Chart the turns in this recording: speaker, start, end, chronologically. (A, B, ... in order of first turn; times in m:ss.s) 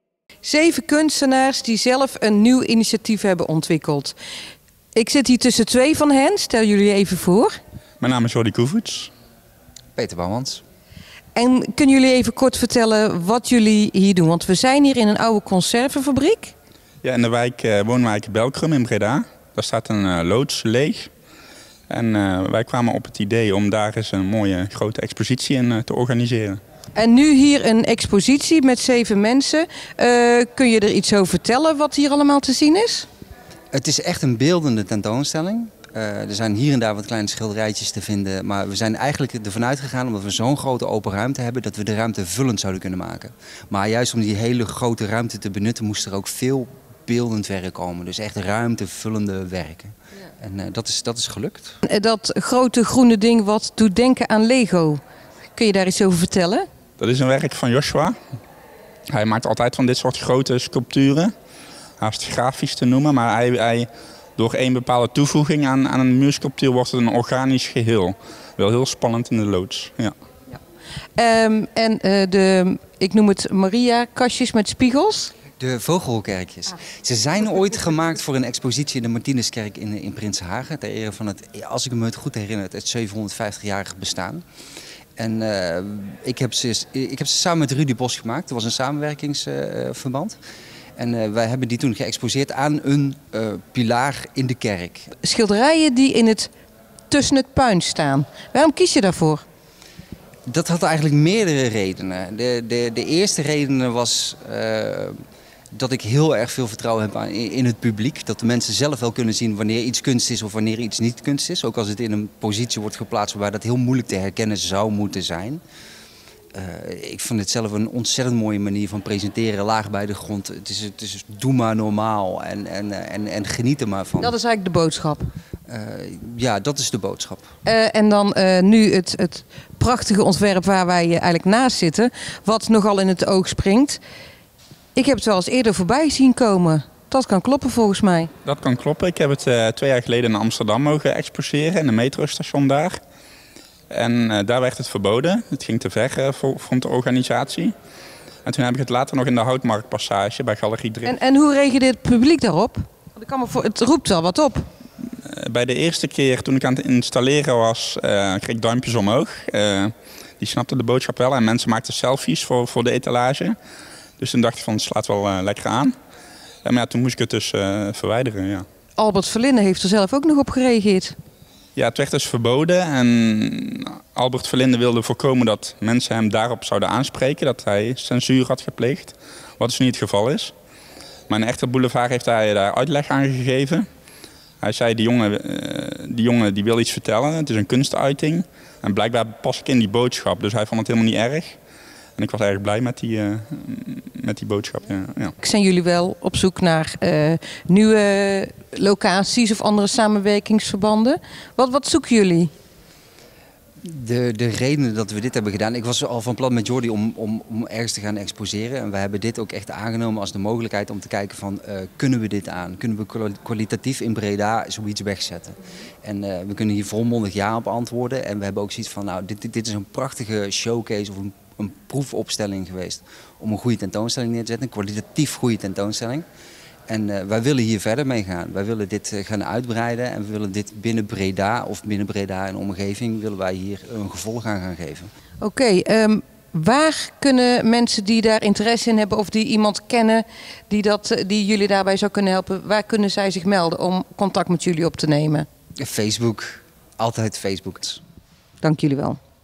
0:00.4-0:04.2 A
0:05.0-0:07.5 A
0:08.0-0:09.1 B
0:10.0-0:10.6 C
0:11.4-0:16.5 A
0:17.0-0:21.1 B
0:21.9-0:26.6 B
0:27.0-0:33.1 A
0:33.7-0:51.8 C
0:51.8-0:55.0 A
0:55.6-0:56.7 A
0:57.0-0:58.2 B
0:59.1-1:01.3 B
1:02.0-1:10.1 B
1:11.2-1:15.3 A
1:15.6-1:24.4 C
1:25.2-1:30.4 C
1:31.0-1:35.1 C
1:35.2-1:36.5 A
1:37.1-1:39.4 A
1:40.5-1:45.2 C
1:45.7-1:55.6 C
1:56.5-2:04.3 C
2:04.2-2:05.3 A
2:05.7-2:07.5 C
2:07.6-2:14.0 A
2:14.9-2:18.3 A
2:18.4-2:23.0 B
2:23.9-2:27.7 B
2:28.4-2:31.1 B
2:31.0-2:34.7 A
2:35.2-2:43.6 B
2:44.2-2:45.9 B
2:46.6-2:48.7 B
2:49.0-2:51.2 A
2:51.8-3:00.5 B
3:01.3-3:03.8 B
3:04.6-3:11.6 B
3:12.2-3:15.3 B
3:15.4-3:22.5 A
3:23.8-3:46.2 C
3:46.9-3:55.1 C
3:55.4-4:05.4 A
4:05.8-4:08.0 C
4:08.6-4:09.2 A